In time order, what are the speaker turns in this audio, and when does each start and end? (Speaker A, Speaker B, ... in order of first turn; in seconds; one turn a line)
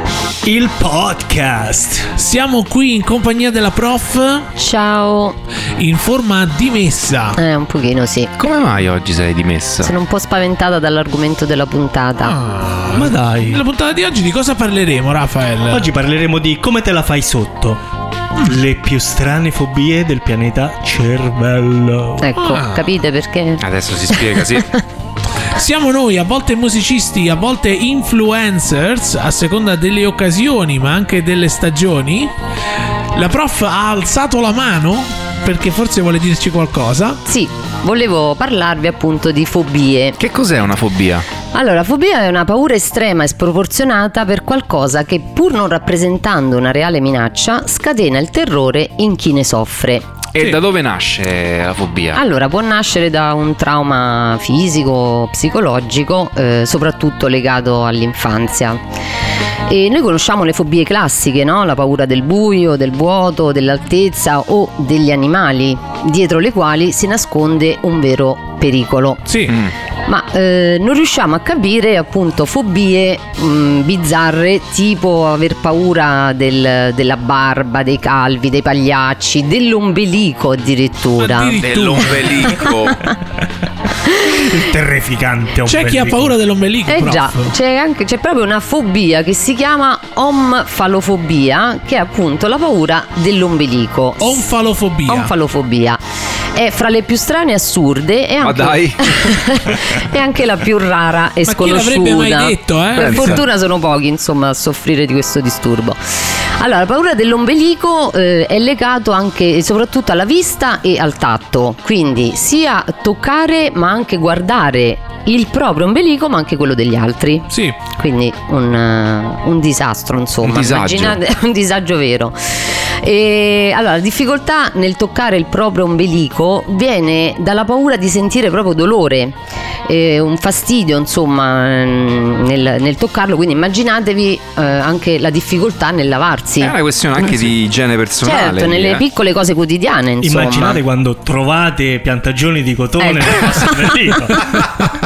Speaker A: 0.4-2.1
Speaker B: 2.1-4.5
Speaker C: 4.5-5.4
Speaker B: 5.8-7.4
Speaker C: 7.3-8.3
Speaker D: 8.4-9.9
Speaker C: 9.8-12.4
Speaker B: 12.2-15.9
Speaker A: 12.9-13.6
Speaker A: 15.7-17.8
Speaker A: 18.4-22.3
Speaker C: 22.2-24.6
Speaker B: 22.4-22.9
Speaker D: 23.6-24.7
Speaker B: 25.5-32.3
Speaker B: 33.1-37.2
Speaker C: 37.2-40.2
Speaker D: 40.2-41.2
Speaker C: 41.5-50.1
Speaker D: 50.3-52.2
Speaker C: 52.1-58.8
Speaker C: 59.7-69.2
Speaker B: 69.2-69.6
Speaker C: 70.0-81.6
Speaker B: 81.2-82.6
Speaker D: 81.6-83.0
Speaker C: 82.6-83.1
Speaker C: 84.0-84.4
Speaker A: 84.3-86.3
Speaker B: 85.7-87.5
Speaker C: 86.9-94.5
Speaker B: 94.2-95.3
Speaker C: 95.0-96.0
Speaker C: 96.5-137.5
Speaker D: 98.4-99.3
Speaker B: 101.5-103.4
Speaker D: 102.9-103.4
Speaker B: 117.5-117.8
Speaker D: 120.4-121.2
Speaker D: 136.6-139.0
Speaker C: 138.2-140.8
Speaker A: 140.2-144.6
Speaker C: 143.0-144.1